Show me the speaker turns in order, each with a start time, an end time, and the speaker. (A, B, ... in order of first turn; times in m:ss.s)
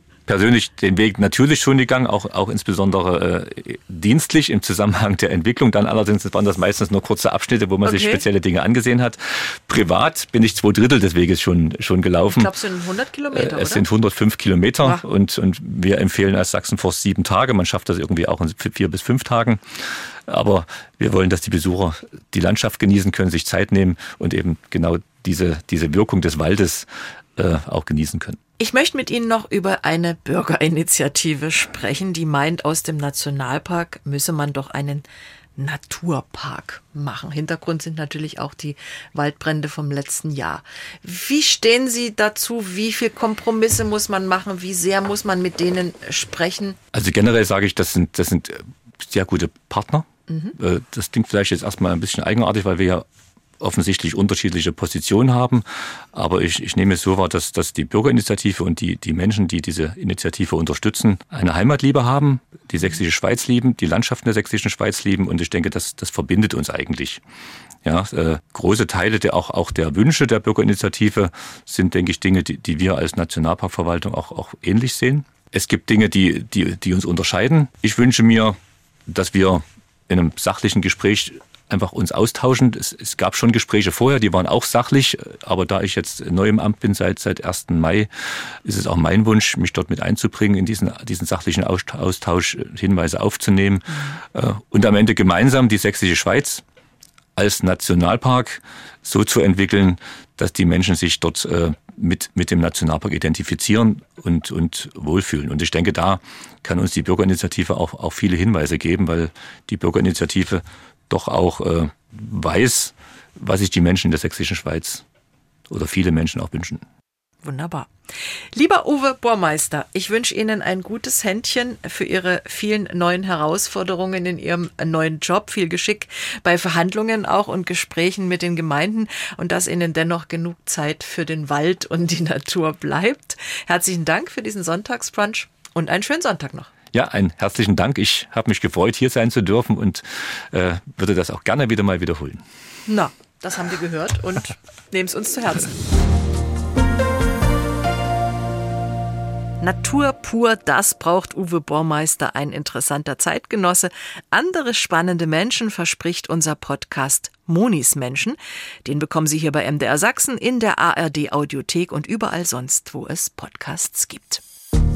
0:00.3-0:12.5 A
0:07.8-0:08.2 B
0:12.3-0:13.9 B
0:13.3-0:28.4 A
0:28.6-0:35.0 B
0:35.6-0:46.8 B
0:46.9-0:53.0 A
0:50.3-0:50.5 B
0:53.6-1:07.2 A
1:07.8-1:36.6 A
1:37.4-1:55.0 A
1:55.7-1:56.8 A
1:57.4-2:16.7 B
2:16.9-2:22.4 A
2:22.9-2:25.8 B
2:29.6-2:44.4 B